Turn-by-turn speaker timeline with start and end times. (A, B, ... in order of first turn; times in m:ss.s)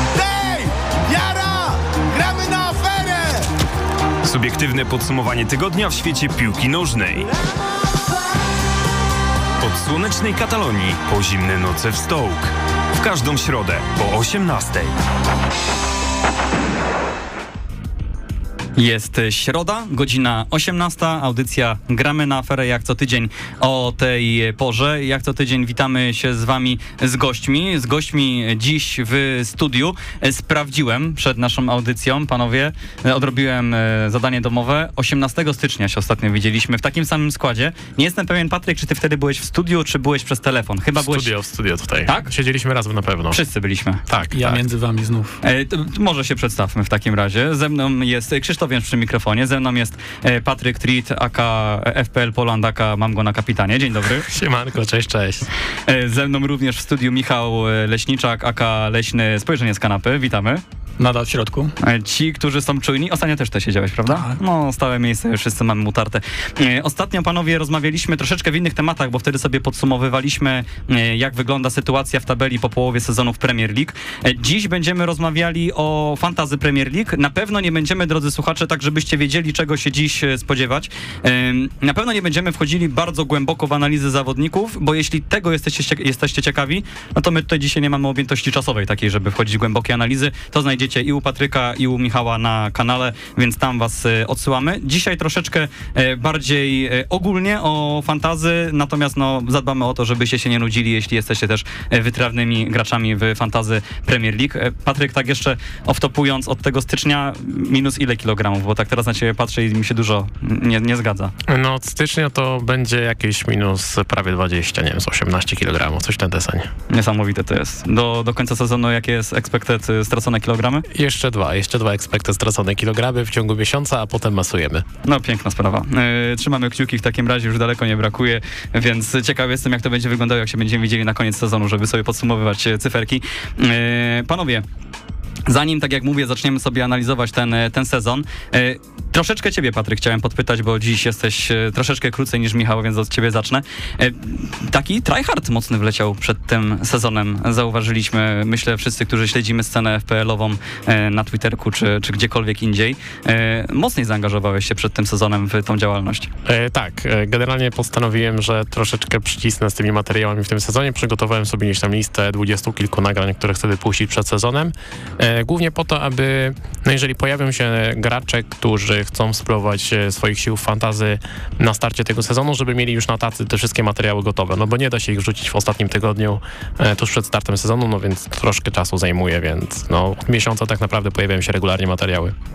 0:00.2-0:03.4 A
0:04.2-0:07.3 B
0:09.6-0:15.0 B
0:18.8-0:41.3 C
0:41.0-0:43.4 D
0:43.3-0:44.0 C
0:44.1-0:44.6 D
0:44.3-0:45.4 E
0:45.4-0:54.2 C
0:54.1-0:55.5 D
0:55.9-1:00.6 C
1:01.0-1:01.7 E
1:01.8-1:51.3 C
1:04.1-1:04.4 E
1:51.5-1:56.7 D
1:56.9-2:00.8 C
2:00.9-2:04.8 D
2:05.0-2:14.6 C
2:15.5-2:36.3 C
2:36.4-3:02.3 D